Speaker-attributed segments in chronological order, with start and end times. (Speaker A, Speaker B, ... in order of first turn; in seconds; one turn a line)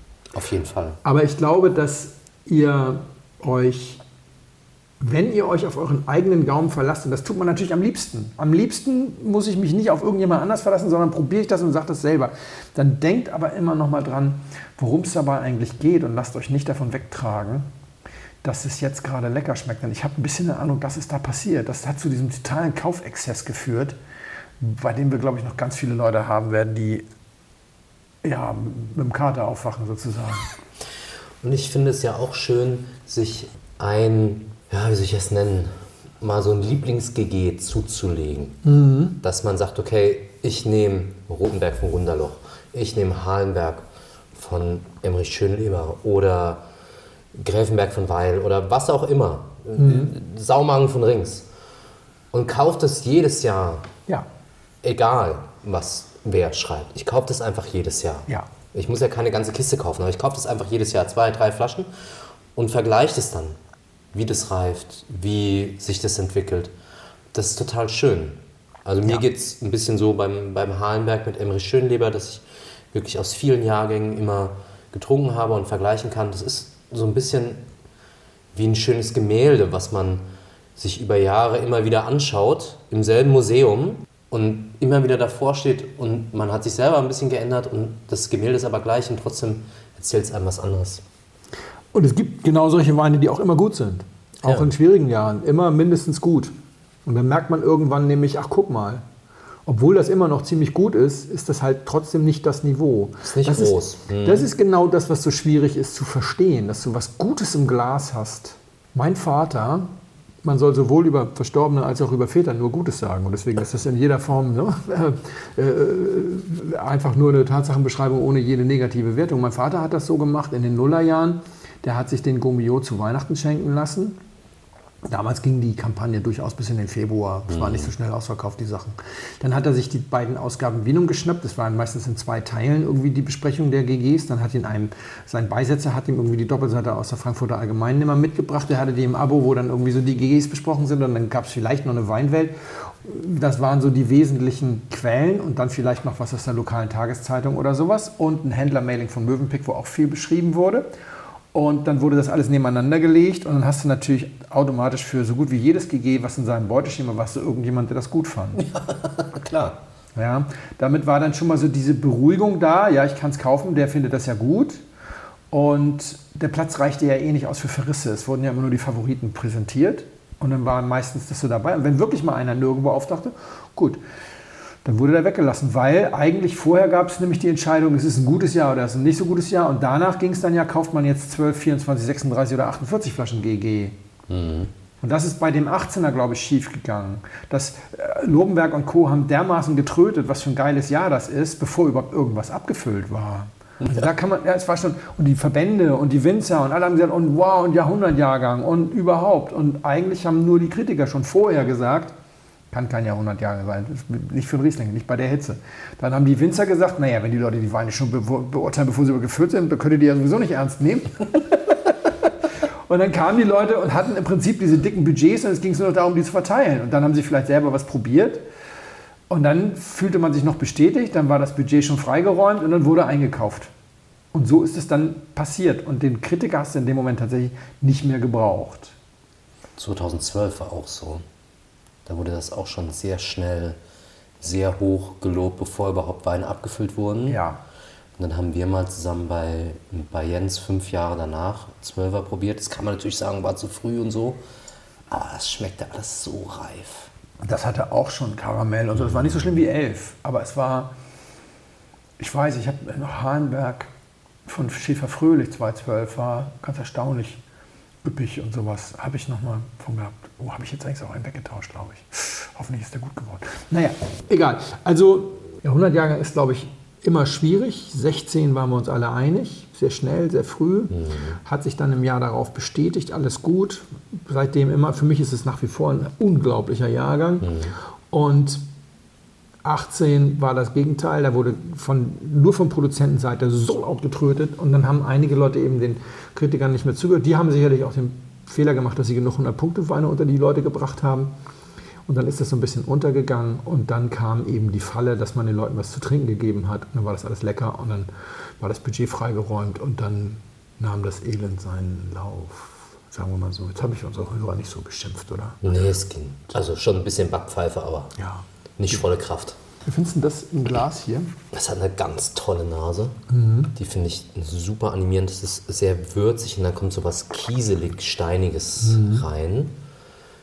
Speaker A: 0.3-1.0
Speaker B: 1.0-4.0
Speaker B: 5.0-17.7
Speaker B: 18.4-24.0
Speaker B: 24.6-27.1
Speaker B: 28.2-30.5
Speaker A: 31.4-38.6
Speaker B: 38.6-39.2
Speaker A: 39.2-46.6
Speaker A: 47.3-51.5
Speaker B: 49.8-50.1
Speaker A: 52.3-53.9
Speaker A: 54.8-63.6
Speaker A: 64.1-66.7
Speaker A: 67.3-77.7
Speaker A: 78.5-80.2
Speaker A: 80.8-91.0
Speaker B: 91.9-96.5
Speaker A: 94.5-94.7
Speaker B: 97.1-99.0
Speaker B: 99.7-109.9
Speaker A: 103.2-104.5
Speaker B: 110.4-124.2
Speaker B: 125.1-150.9
Speaker A: 127.5-127.9
Speaker B: 151.5-158.6
Speaker A: 158.6-159.8
Speaker B: 160.2-164.8
Speaker B: 165.5-174.0
Speaker B: 174.8-184.0
Speaker A: 184.3-184.7
Speaker B: 185.0-202.2
Speaker B: 202.7-211.9
Speaker B: 212.9-218.4
Speaker B: 219.3-223.7
Speaker B: 224.3-228.9
Speaker A: 229.8-231.2
Speaker A: 232.1-233.8
Speaker A: 234.4-237.4
Speaker B: 237.3-237.6
Speaker A: 238.2-244.4
Speaker A: 245.1-247.1
Speaker B: 247.4-250.9
Speaker A: 249.0-249.6
Speaker B: 252.2-253.9
Speaker B: 254.5-257.4
Speaker B: 258.0-278.6
Speaker A: 270.9-271.4
Speaker A: 277.4-277.7
Speaker B: 279.6-291.3
Speaker B: 292.1-305.6
Speaker A: 305.6-308.2
Speaker B: 308.2-309.0
Speaker A: 308.8-309.6
Speaker B: 309.8-311.3
Speaker A: 311.5-313.2
Speaker B: 313.3-313.7
Speaker A: 313.8-319.8
Speaker B: 318.8-319.2